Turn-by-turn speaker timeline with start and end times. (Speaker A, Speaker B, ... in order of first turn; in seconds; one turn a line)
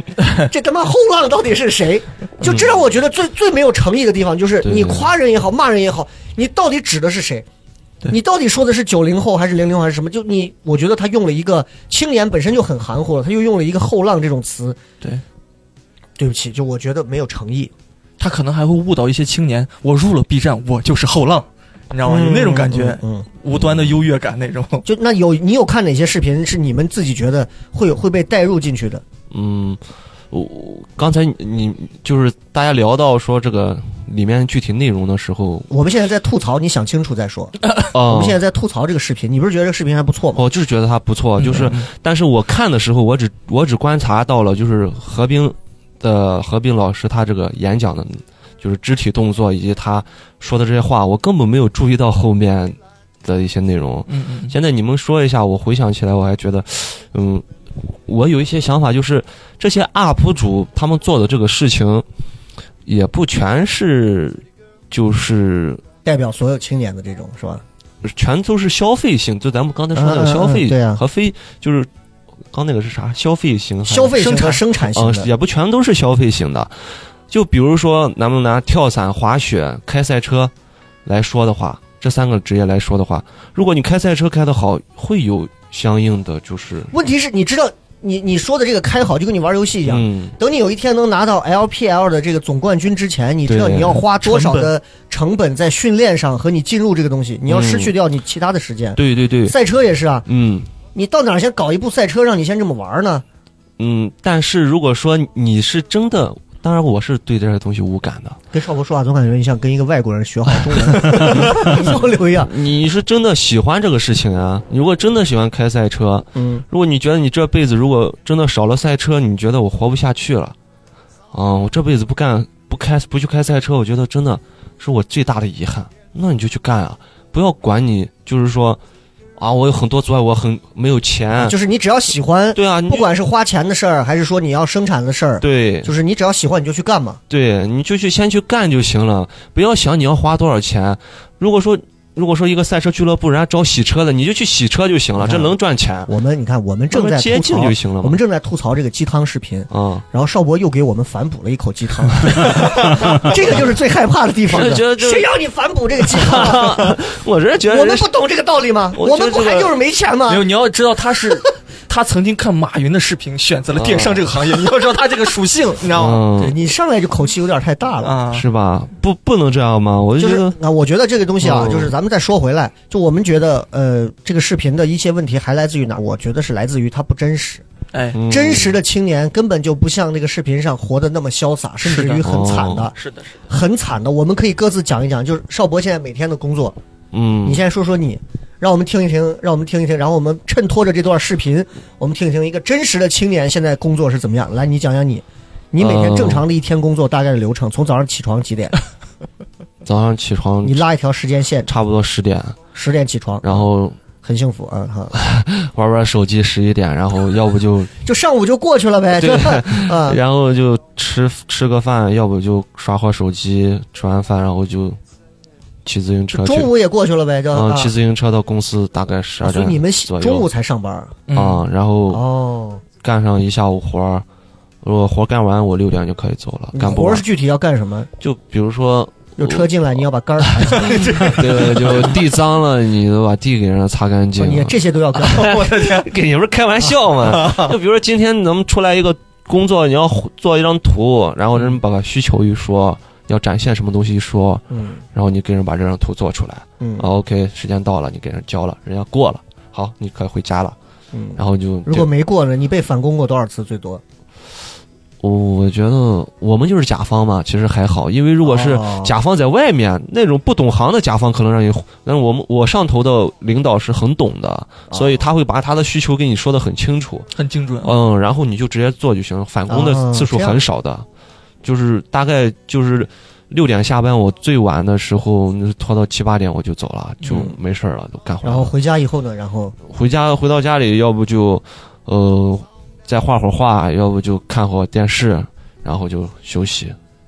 Speaker A: 0.2-0.5
Speaker B: 0.4-7.5
Speaker C: 4.6-5.1
Speaker B: 8.1-14.8
Speaker B: 16.2-17.7
Speaker A: 18.2-24.9
Speaker B: 22.1-23.3
Speaker C: 23.5-23.9
Speaker B: 24.9-29.0
Speaker C: 29.3-35.7
Speaker B: 35.7-40.4
Speaker C: 37.9-38.4
Speaker C: 40.4-62.0
Speaker A: 41.4-41.9
Speaker A: 54.1-54.6
Speaker C: 62.9-65.8
Speaker B: 66.0-67.6
Speaker C: 68.0-71.9
Speaker B: 70.0-71.0
Speaker C: 72.5-74.3
Speaker B: 73.9-75.3
Speaker A: 74.2-74.6
Speaker C: 74.9-80.5
Speaker C: 81.0-86.9
Speaker B: 86.9-100.3
Speaker C: 89.9-90.3
Speaker C: 93.5-94.1
Speaker A: 94.2-94.7
Speaker C: 97.5-97.9
Speaker C: 99.0-99.6
Speaker C: 100.3-100.7
Speaker B: 100.9-103.2
Speaker C: 103.8-108.4
Speaker B: 108.5-112.5
Speaker C: 111.0-120.5
Speaker B: 116.3-116.6
Speaker C: 121.3-128.8
Speaker C: 129.4-131.6
Speaker B: 131.4-137.2
Speaker C: 132.6-133.1
Speaker C: 135.4-135.9
Speaker C: 137.3-146.1
Speaker B: 145.2-145.5
Speaker B: 146.1-156.9
Speaker C: 146.9-148.2
Speaker C: 149.7-150.0
Speaker C: 154.5-155.3
Speaker C: 156.1-158.1
Speaker B: 157.7-160.5
Speaker C: 158.9-159.7
Speaker A: 160.3-166.2
Speaker C: 163.7-164.3
Speaker C: 165.9-166.5
Speaker B: 166.4-168.2
Speaker A: 168.0-168.5
Speaker C: 168.3-170.6
Speaker B: 170.2-177.7
Speaker C: 171.4-171.9
Speaker A: 177.9-178.2
Speaker C: 178.1-178.8
Speaker B: 178.3-182.9
Speaker A: 181.8-182.2
Speaker C: 182.2-182.9
Speaker A: 182.9-183.4
Speaker B: 183.5-186.8
Speaker C: 187.1-187.6
Speaker B: 187.4-198.8
Speaker C: 195.8-196.4
Speaker C: 199.8-200.8
Speaker B: 200.6-201.7
Speaker C: 201.7-202.6
Speaker B: 202.7-203.6
Speaker C: 203.4-204.0
Speaker B: 204.2-205.1
Speaker C: 205.1-207.9
Speaker B: 208.0-210.2
Speaker C: 209.1-215.0
Speaker C: 215.8-216.7
Speaker B: 216.3-217.9
Speaker C: 217.5-220.5
Speaker B: 219.4-221.2
Speaker A: 221.3-221.6
Speaker C: 221.3-222.2
Speaker B: 222.1-222.8
Speaker C: 223.0-224.2
Speaker C: 224.8-227.2
Speaker B: 226.7-228.1
Speaker C: 228.2-229.7
Speaker B: 229.4-231.8
Speaker C: 230.6-250.7
Speaker A: 230.8-231.8
Speaker B: 234.4-235.8
Speaker A: 235.4-236.1
Speaker A: 237.4-237.7
Speaker B: 244.7-245.0
Speaker B: 246.8-247.1
Speaker B: 251.1-254.0
Speaker C: 251.4-252.1
Speaker C: 255.2-267.3
Speaker B: 258.4-259.1
Speaker B: 264.9-265.2
Speaker A: 267.3-268.0
Speaker C: 267.8-271.1
Speaker B: 269.7-270.6
Speaker C: 271.6-278.7
Speaker B: 278.4-279.8
Speaker C: 279.8-287.0